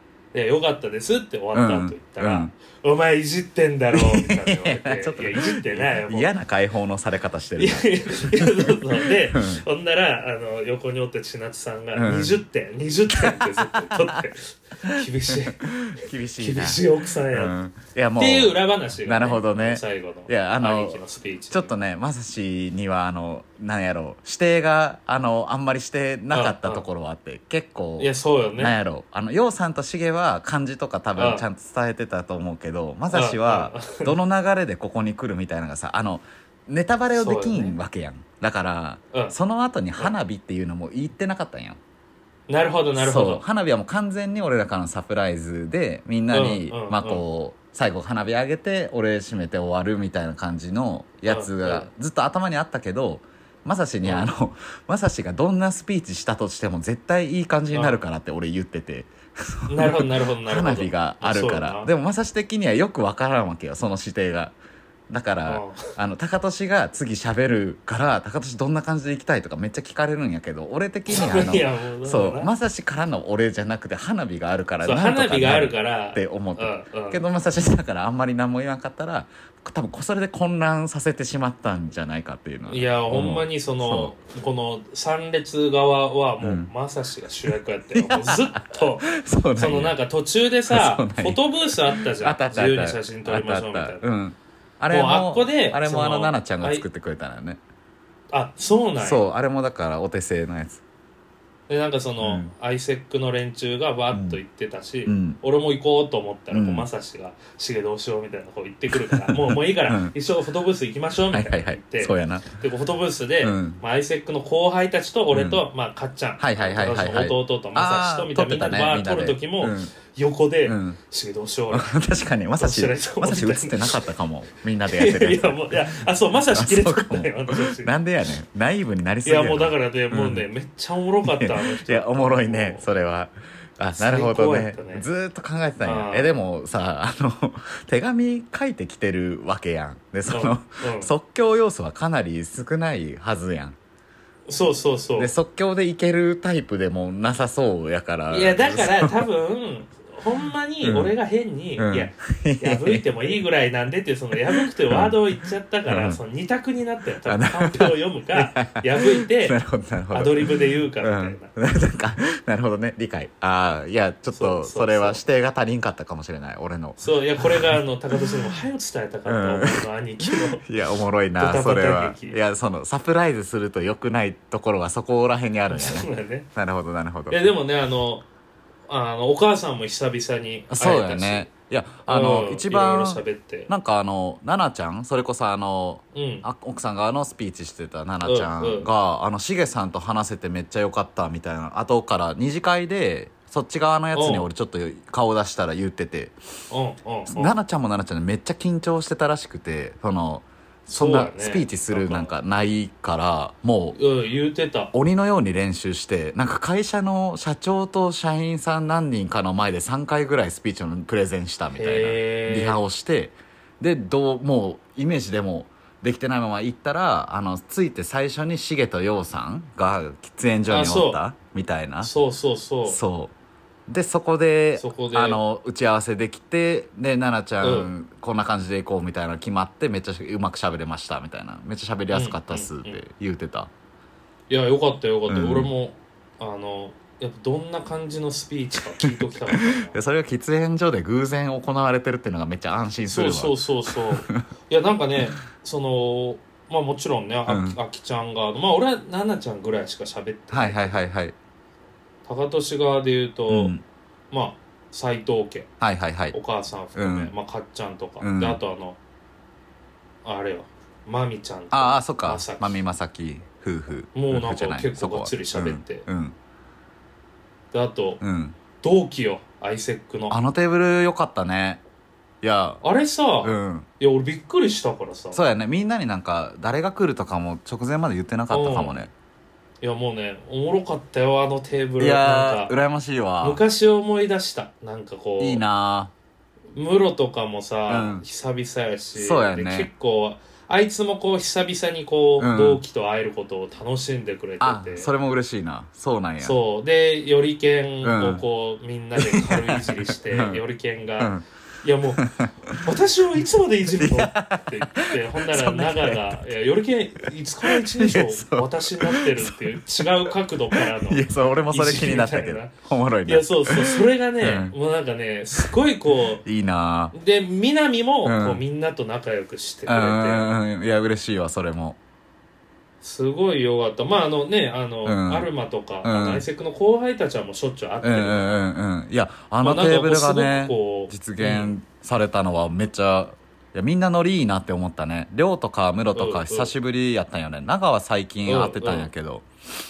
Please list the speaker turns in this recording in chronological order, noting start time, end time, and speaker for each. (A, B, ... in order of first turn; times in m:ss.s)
0:00.3-0:06.3 A
0:01.5-0:02.5 B
0:03.9-0:09.6 B
0:07.6-0:15.6 A
0:12.0-0:12.4 B
0:13.1-0:14.2 B
0:14.8-0:41.8 B
0:16.4-0:17.6 A
0:18.2-0:21.8 A
0:26.3-0:26.8 A
0:28.0-0:28.8 A
0:31.2-0:31.4 A
0:33.1-0:34.1 A
0:37.1-0:37.8 A
0:42.5-0:43.4 A
0:43.0-1:04.6 B
0:46.3-0:47.2 A
0:51.3-0:51.9 A
0:54.0-0:54.3 A
0:57.7-0:58.0 A
0:59.7-1:01.9 A
1:05.1-1:24.1 B
1:05.5-1:05.9 A
1:11.1-1:12.5 A
1:14.8-1:17.2 A
1:22.7-1:34.1 A
1:26.4-1:26.7 B
1:27.9-1:30.0 B
1:30.7-1:31.4 B
1:32.0-1:37.6 B
1:34.9-1:36.8 A
1:38.3-1:39.2 A
1:39.0-1:40.8 B
1:41.7-2:02.0 A
1:42.2-1:42.5 B
1:44.1-1:44.4 B
1:45.1-1:45.4 B
1:46.5-1:46.9 B
1:49.1-1:50.1 B
1:51.3-1:52.5 B
1:53.4-1:53.8 B
1:55.3-1:55.6 B
1:56.4-1:59.9 B
2:00.7-2:01.0 B
2:01.7-2:05.9 B
2:02.6-2:04.0 A
2:04.9-2:07.9 A
2:06.6-2:10.5 B
2:09.2-2:12.9 A
2:11.2-2:23.8 B
2:14.0-2:15.1 A
2:15.8-2:16.3 A
2:20.3-2:21.1 A
2:24.5-2:25.3 A
2:25.2-2:29.3 B
2:28.3-2:39.6 A
2:30.8-2:31.1 B
2:31.8-2:33.1 B
2:34.5-2:35.2 B
2:35.9-2:36.2 B
2:37.3-2:48.4 B
2:40.1-2:41.5 A
2:44.3-2:45.2 A
2:47.0-2:50.6 A
2:49.3-2:57.4 B
2:51.4-2:52.4 A
2:55.7-2:56.5 A
2:57.3-2:58.3 A
2:58.9-3:01.5 A
3:00.7-3:16.4 B
3:02.0-3:03.7 A
3:06.1-3:06.4 A
3:08.2-3:08.9 A
3:14.1-3:14.5 A
3:16.7-3:17.5 A
3:17.3-3:24.0 B
3:20.9-3:22.3 A
3:24.0-3:24.9 A
3:24.9-3:42.1 B
3:31.7-3:32.8 A
3:40.7-3:41.2 A
3:42.0-3:43.0 A
3:42.9-3:43.3 B
3:43.9-3:53.7 B
3:44.8-3:45.4 A
3:47.6-3:47.9 A
3:52.1-3:53.0 A
3:54.5-4:00.0 A
3:55.3-3:55.7 B
3:59.0-4:04.4 B
4:03.1-4:11.0 A
4:07.5-4:07.8 B
4:10.5-4:11.4 B
4:12.2-4:13.7 A
4:13.5-4:13.8 B
4:14.3-4:15.7 A
4:15.8-4:16.4 B
4:16.3-4:19.0 A
4:17.0-4:17.3 B
4:18.2-4:18.6 B
4:20.2-4:22.8 A
4:21.7-4:26.4 B
4:24.1-4:26.1 A
4:27.7-4:28.2 A
4:28.2-4:28.6 B
4:28.8-4:30.4 A
4:30.3-4:31.8 B
4:32.4-4:32.8 B
4:32.8-4:35.4 A
4:33.4-4:33.9 B
4:35.3-4:39.1 B
4:38.5-4:39.1 A
4:39.8-4:42.7 A
4:42.0-4:43.6 B
4:43.4-4:45.6 A
4:45.4-4:46.1 B
4:46.7-4:55.1 A
4:47.9-4:48.2 B
4:49.2-4:49.9 B
4:52.4-4:52.8 B
4:54.6-4:56.6 B
4:56.4-5:02.3 A
4:58.0-4:58.4 B
4:59.2-5:00.6 B
5:02.2-5:02.8 B
5:02.8-5:12.7 A
5:04.0-5:06.4 B
5:07.6-5:14.7 B
5:13.3-5:16.4 A
5:16.4-5:17.1 B
5:17.1-5:20.5 A
5:18.2-5:18.6 B
5:19.9-5:22.0 B
5:23.0-5:28.7 A
5:25.0-5:25.5 B
5:26.0-5:26.4 B
5:28.0-5:39.5 B
5:29.6-5:31.7 A
5:36.1-5:36.7 A
5:38.4-5:39.1 A